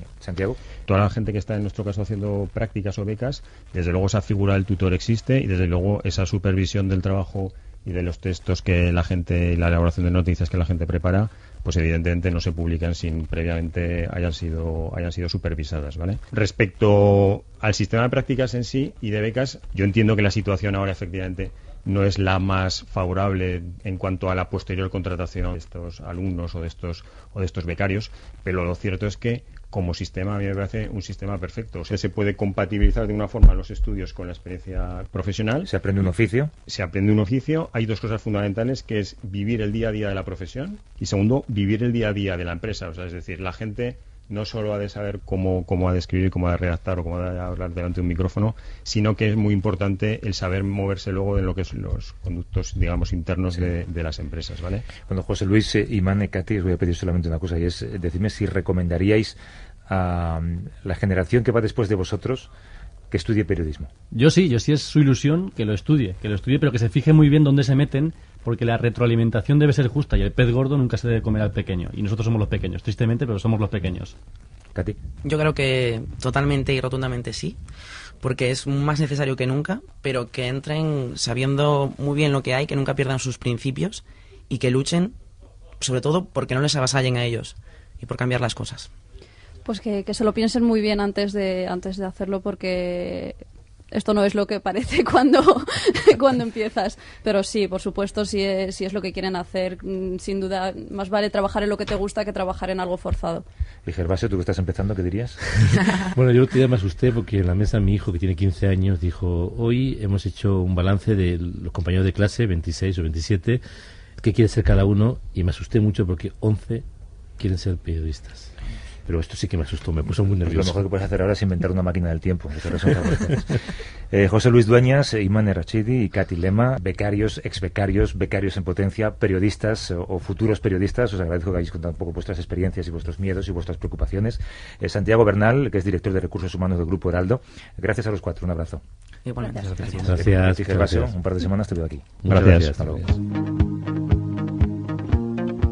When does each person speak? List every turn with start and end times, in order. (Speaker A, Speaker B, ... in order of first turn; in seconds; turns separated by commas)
Speaker A: 0.2-0.6, Speaker B: 0.9-35.7, Speaker A: 35.7-36.5, Speaker B: 36.7-54.9, Speaker A: 55.1-59.4, Speaker A: 59.9-62.5, Speaker A: 63.1-63.9, Speaker C: 64.1-74.2, Speaker D: 75.2-77.6, Speaker D: 78.2-85.2, Speaker D: 85.8-88.9, Speaker E: 89.7-93.4, Speaker E: 93.9-103.4, Speaker A: 103.9-105.4, Speaker F: 105.9-113.6, Speaker F: 114.2-116.8, Speaker F: 117.4-118.5, Speaker F: 119.1-120.8, Speaker A: 120.5-138.8, Speaker D: 139.3-140.2, Speaker A: 139.9-143.0, Speaker F: 140.0-141.2, Speaker F: 142.2-143.0, Speaker B: 142.3-142.7